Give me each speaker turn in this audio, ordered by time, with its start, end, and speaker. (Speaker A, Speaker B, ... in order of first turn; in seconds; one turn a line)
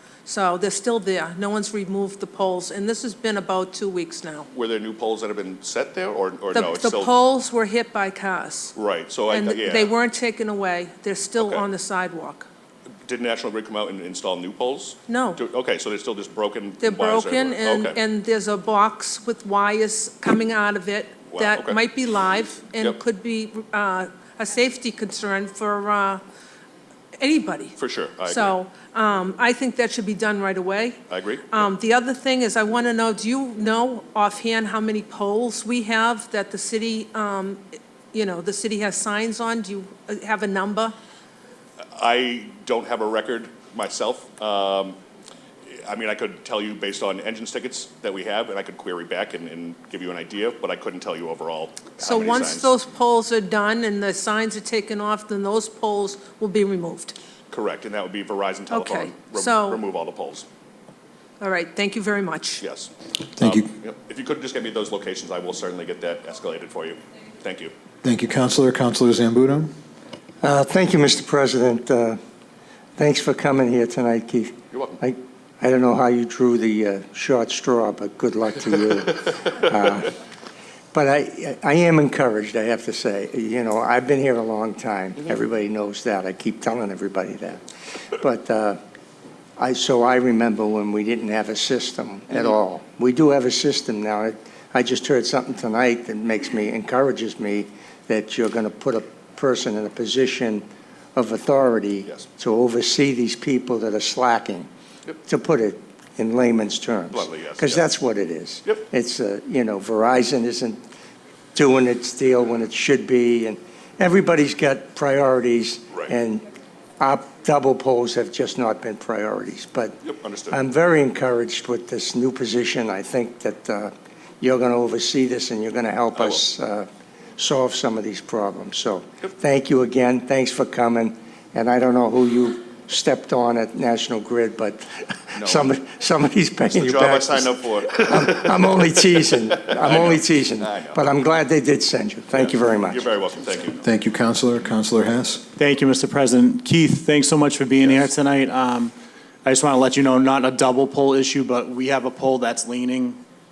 Speaker A: 0.3-4.5
Speaker B: 4.5-7.2
Speaker A: 6.5-8.7
Speaker B: 8.8-9.9
Speaker A: 9.3-12.5
Speaker B: 11.4-11.7
Speaker B: 13.1-18.0
Speaker A: 15.1-15.4
Speaker A: 16.8-26.2
Speaker B: 21.3-21.8
Speaker A: 27.2-41.0
Speaker B: 27.8-28.5
Speaker B: 31.1-31.5
Speaker B: 42.0-45.0
Speaker B: 45.8-52.7
Speaker A: 52.0-57.2
Speaker B: 57.5-60.5
Speaker A: 58.7-59.8
Speaker A: 61.4-62.6
Speaker B: 62.6-67.7
Speaker C: 63.4-63.7
Speaker C: 68.0-69.7
Speaker D: 70.4-72.2
Speaker D: 73.0-80.1
Speaker B: 74.7-75.0
Speaker D: 80.9-87.6
Speaker D: 88.2-88.8
Speaker D: 89.6-104.7
Speaker D: 105.2-110.8
Speaker B: 107.1-107.8
Speaker D: 111.5-116.4
Speaker D: 117.0-143.1
Speaker B: 120.0-120.6
Speaker B: 126.2-126.4
Speaker B: 135.4-135.7
Speaker B: 136.7-138.6
Speaker B: 139.5-141.1
Speaker B: 142.4-143.8
Speaker C: 143.8-145.4
Speaker E: 145.6-148.9
Speaker E: 149.4-153.2